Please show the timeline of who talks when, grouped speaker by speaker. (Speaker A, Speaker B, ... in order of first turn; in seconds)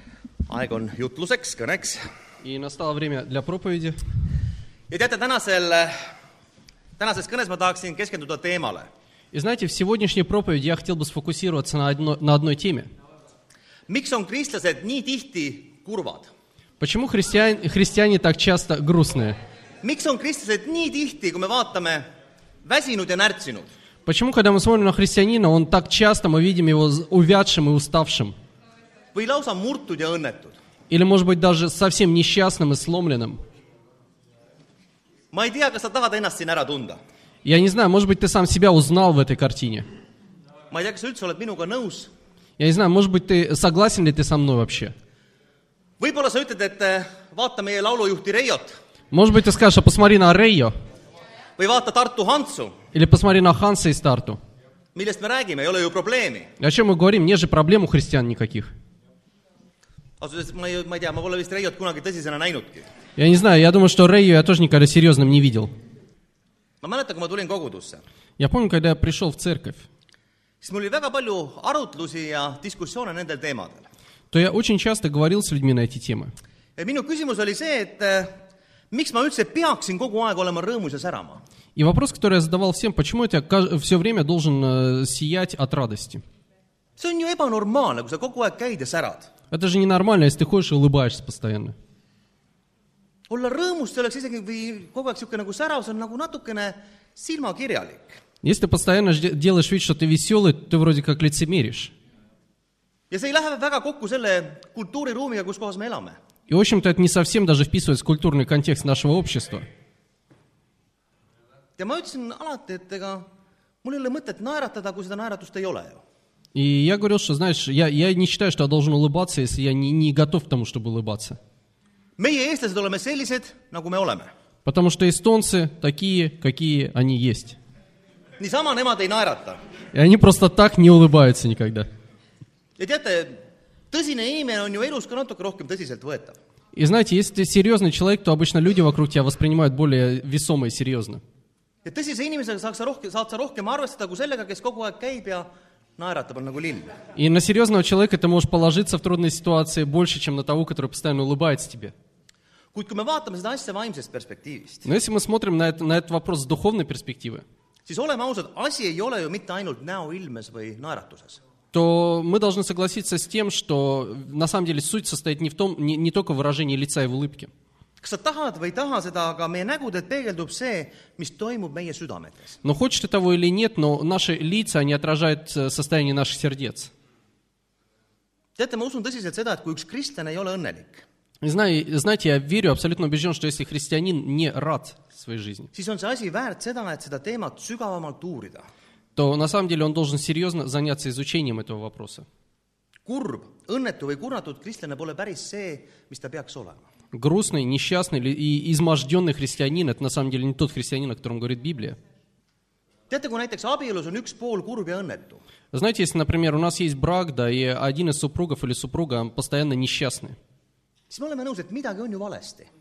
Speaker A: 0.5-2.1, 4.9-6.1, 7.0-8.9, 13.9-16.3, 19.8-22.0, 22.6-23.7, 29.1-30.6, 35.3-37.0, 40.7-42.1, 46.0-48.8, 51.6-52.8, 54.9-56.5, 60.2-62.9, 66.8-68.0, 70.6-73.9, 76.8-81.4, 87.0-89.3, 93.3-98.2, 103.1-106.2, 111.8-113.3, 113.8-116.0, 122.2-124.3, 128.4-129.6, 132.8-136.4, 141.8-147.0, 152.7-154.9, 157.8-161.4, 168.0-172.6, 178.6-181.0, 185.7-188.7, 193.0-196.8, 203.1-205.4, 211.1-212.7
Speaker B: 2.4-4.0, 9.3-12.9, 16.8-19.4, 24.1-28.3, 30.9-33.4, 37.4-39.9, 42.6-44.9, 49.1-50.7, 52.9-54.4, 56.6-58.7, 63.2-65.7, 68.4-69.9, 74.3-76.3, 81.8-86.2, 89.5-91.7, 98.4-101.9, 106.5-109.7, 116.5-121.4, 124.6-127.6, 129.9-131.9, 136.7-141.2, 147.1-151.9, 154.8-157.4, 161.7-167.5, 172.6-176.9, 181.4-185.7, 189.1-192.3, 197.1-202.0, 205.7-210.4